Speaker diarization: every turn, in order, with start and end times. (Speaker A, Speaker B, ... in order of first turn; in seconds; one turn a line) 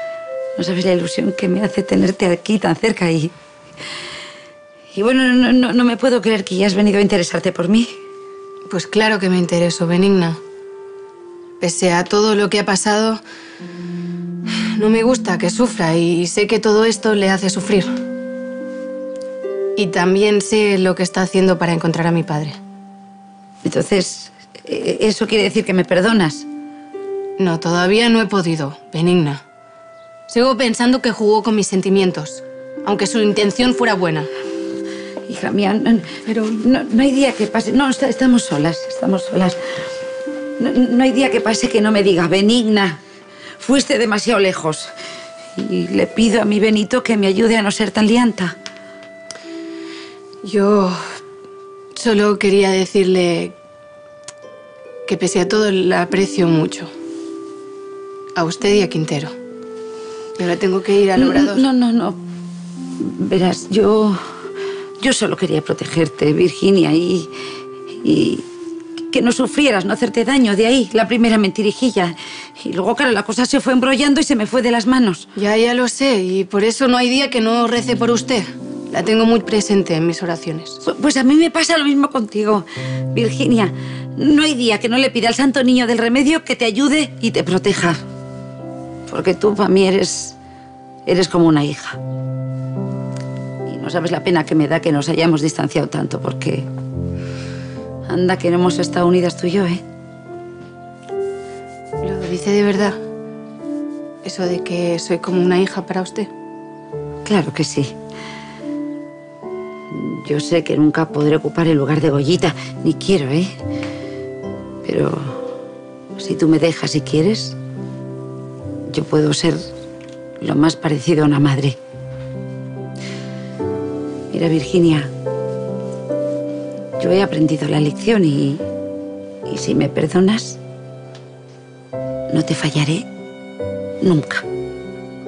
Speaker A: 0.6-3.3
Speaker A: 4.9-7.9
Speaker B: 8.7-10.4
Speaker B: 11.6-13.2
Speaker B: 14.7-17.9
Speaker B: 19.8-22.6
Speaker A: 23.6-26.5
Speaker B: 27.4-29.4
Speaker B: 30.3-34.3
Speaker A: 35.3-39.6
Speaker B: 36.3-36.6
Speaker A: 40.6-43.0
Speaker A: 43.6-44.9
Speaker A: 45.5-48.5
Speaker B: 50.4-51.0
Speaker B: 52.0-53.5
Speaker B: 55.1-56.9
Speaker B: 58.4-59.3
Speaker B: 60.4-61.6
Speaker A: 61.2-62.2
Speaker A: 63.0-64.2
Speaker A: 65.0-67.3
Speaker A: 68.0-68.5
Speaker A: 69.1-75.3
Speaker B: 75.4-80.8
Speaker A: 80.8-88.0
Speaker A: 89.1-90.4
Speaker A: 91.1-92.0
Speaker A: 93.7-96.7
Speaker A: 98.1-99.8
Speaker B: 102.0-103.0
Speaker B: 104.2-106.3
Speaker A: 107.2-107.9
Speaker A: 109.9-113.5
Speaker A: 114.8-115.4
Speaker A: 116.2-117.6
Speaker A: 118.9-119.6
Speaker A: 120.4-121.8
Speaker A: 124.3-125.1
Speaker A: 127.0-128.6
Speaker A: 129.5-130.6
Speaker A: 132.3-133.1
Speaker A: 134.0-134.4